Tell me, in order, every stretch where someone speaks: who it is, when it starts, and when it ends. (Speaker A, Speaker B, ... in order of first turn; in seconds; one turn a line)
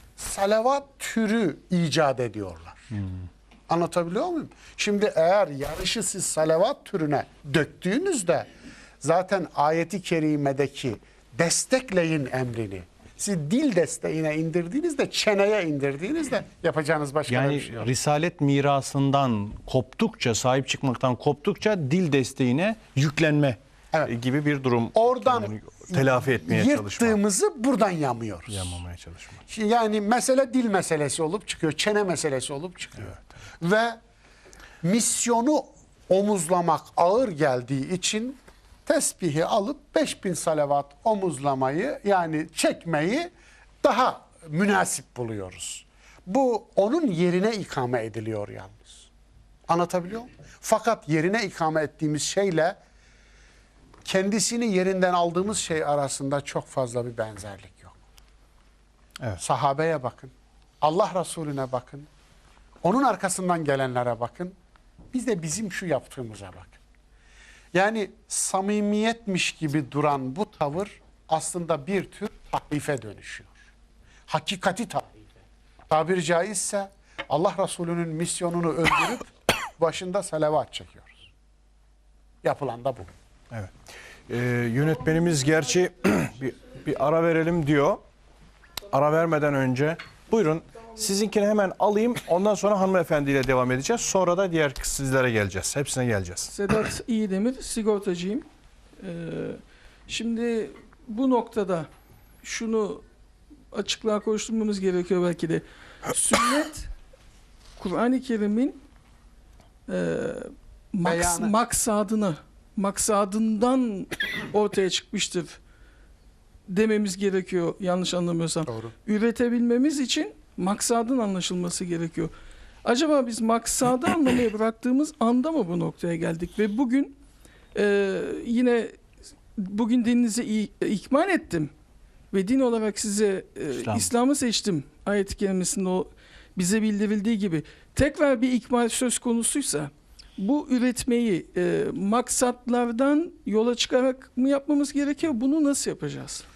Speaker A: 0.2-2.8
Speaker A: 3.7-8.5
Speaker A: 9.0-17.9
Speaker B: 17.3-27.2
Speaker A: 24.9-28.8
Speaker B: 28.5-29.4
Speaker A: 29.5-34.0
Speaker A: 34.8-43.3
Speaker A: 43.8-49.0
Speaker A: 49.7-52.8
Speaker A: 54.0-58.0
Speaker A: 59.4-62.1
Speaker A: 62.8-64.5
Speaker A: 65.1-66.8
Speaker A: 67.7-73.5
Speaker A: 74.3-75.2
Speaker A: 75.9-81.2
Speaker A: 82.4-83.1
Speaker B: 84.3-88.0
Speaker B: 88.9-96.5
Speaker C: 96.5-98.5
Speaker C: 99.0-101.9
Speaker C: 102.4-103.0
Speaker C: 103.7-106.9
Speaker C: 107.8-108.8
Speaker C: 109.9-115.6
Speaker A: 111.0-111.5
Speaker C: 116.7-122.3
Speaker A: 118.7-118.9
Speaker C: 122.8-127.2
Speaker C: 127.7-129.0
Speaker C: 129.6-131.7
Speaker C: 132.3-146.5
Speaker B: 133.8-134.1